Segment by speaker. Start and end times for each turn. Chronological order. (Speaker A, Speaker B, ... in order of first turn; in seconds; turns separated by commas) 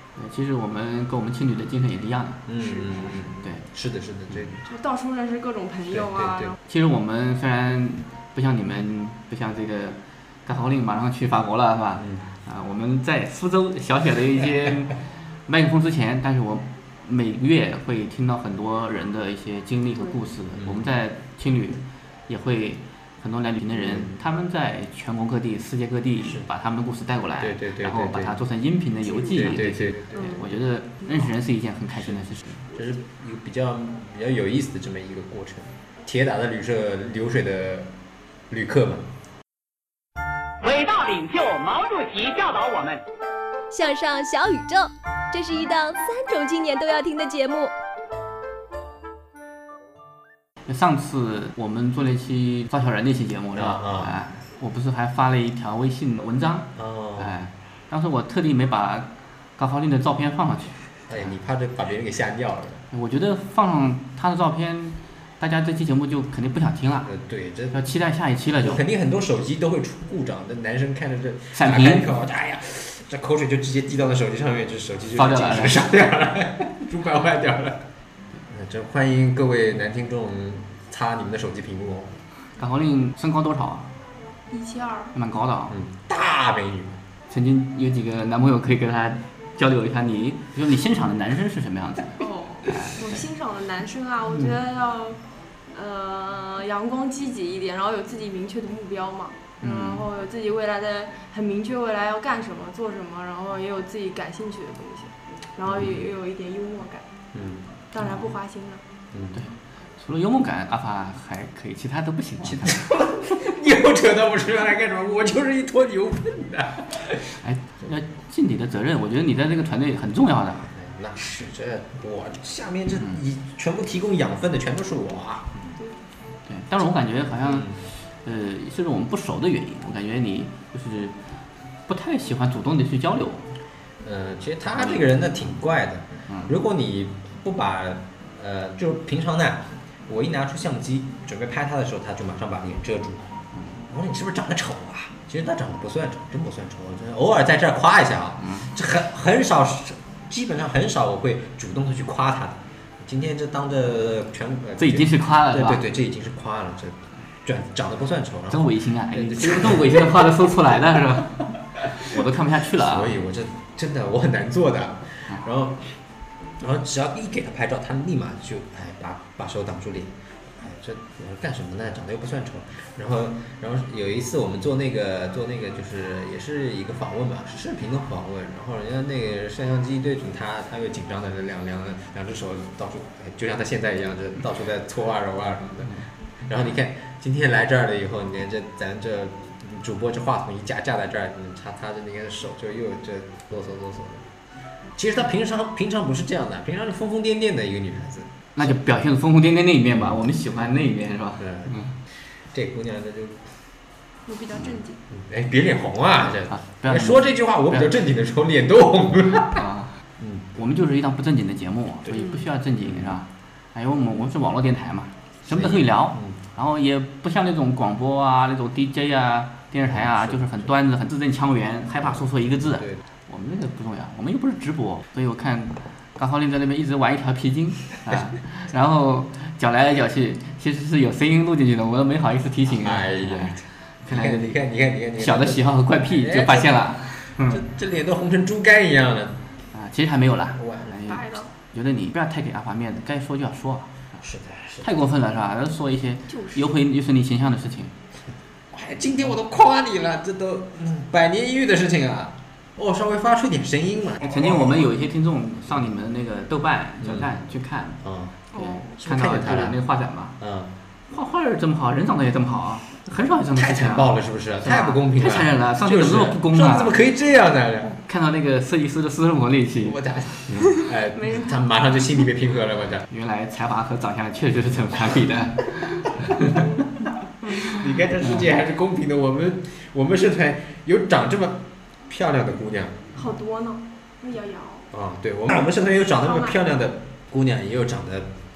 Speaker A: 0.1-2.5, Speaker B: 2.5-4.7, Speaker C: 2.6-3.2, Speaker A: 3.0-3.6, Speaker C: 4.7-6.6, Speaker B: 5.9-6.5, Speaker A: 6.7-32.7, Speaker B: 12.0-12.2, Speaker B: 20.6-20.9, Speaker B: 23.7-24.1, Speaker B: 26.2-26.5, Speaker B: 27.4-28.4, Speaker C: 29.1-29.6, Speaker B: 29.3-30.4, Speaker C: 30.1-30.4, Speaker B: 32.7-37.9, Speaker B: 38.5-39.1, Speaker D: 40.6-43.0, Speaker E: 43.7-47.7, Speaker A: 50.7-61.3, Speaker B: 53.5-54.1, Speaker B: 56.8-57.3, Speaker B: 61.1-62.8, Speaker A: 62.9-67.1, Speaker B: 67.0-67.8, Speaker A: 67.7-68.8, Speaker B: 68.6-77.8, Speaker A: 71.5-72.0, Speaker A: 75.2-75.8, Speaker B: 78.5-82.2, Speaker A: 82.6-83.9, Speaker C: 84.5-85.1, Speaker A: 85.1-85.7, Speaker B: 85.7-87.0, Speaker A: 87.3-93.1, Speaker C: 92.2-95.2, Speaker C: 95.7-107.1, Speaker A: 99.6-100.0, Speaker B: 105.7-106.0, Speaker B: 107.3-107.6, Speaker C: 107.9-108.8, Speaker A: 108.0-108.3, Speaker B: 109.1-109.4, Speaker A: 109.3-112.9, Speaker B: 112.4-117.3, Speaker A: 117.4-120.7, Speaker B: 120.6-125.7, Speaker A: 126.5-131.1, Speaker B: 127.4-127.8, Speaker A: 131.9-133.5, Speaker B: 134.0-143.3, Speaker B: 143.9-160.3, Speaker A: 148.4-148.7, Speaker A: 154.8-155.8, Speaker A: 158.5-163.1, Speaker B: 162.7-166.0, Speaker B: 166.6-194.3, Speaker B: 194.9-198.7, Speaker A: 198.6-201.9, Speaker B: 199.9-200.3, Speaker B: 201.4-201.8, Speaker B: 202.5-203.5, Speaker C: 204.3-205.0, Speaker B: 205.1-209.6, Speaker A: 206.5-207.9, Speaker A: 209.5-210.0, Speaker B: 210.2-210.5, Speaker A: 210.6-234.5, Speaker C: 212.2-212.4, Speaker B: 212.8-213.2, Speaker B: 215.4-216.4, Speaker B: 219.8-220.7, Speaker B: 222.0-223.0, Speaker B: 232.7-239.4, Speaker A: 235.2-237.6, Speaker A: 239.7-243.9, Speaker B: 240.5-241.1, Speaker C: 241.1-241.5, Speaker B: 244.2-244.9, Speaker A: 244.8-247.9, Speaker C: 246.3-246.7, Speaker B: 248.7-254.9, Speaker A: 254.2-258.0, Speaker B: 255.7-255.9, Speaker B: 257.0-257.4, Speaker B: 258.0-258.4, Speaker C: 258.5-258.9, Speaker A: 258.5-260.4, Speaker B: 259.0-259.8, Speaker B: 260.4-260.7, Speaker A: 261.1-266.9, Speaker B: 263.5-268.0, Speaker A: 268.1-270.0, Speaker B: 269.8-273.1, Speaker C: 271.1-271.5, Speaker A: 273.1-276.7, Speaker B: 277.7-283.1, Speaker C: 283.1-284.9, Speaker B: 284.9-288.3, Speaker C: 286.1-286.6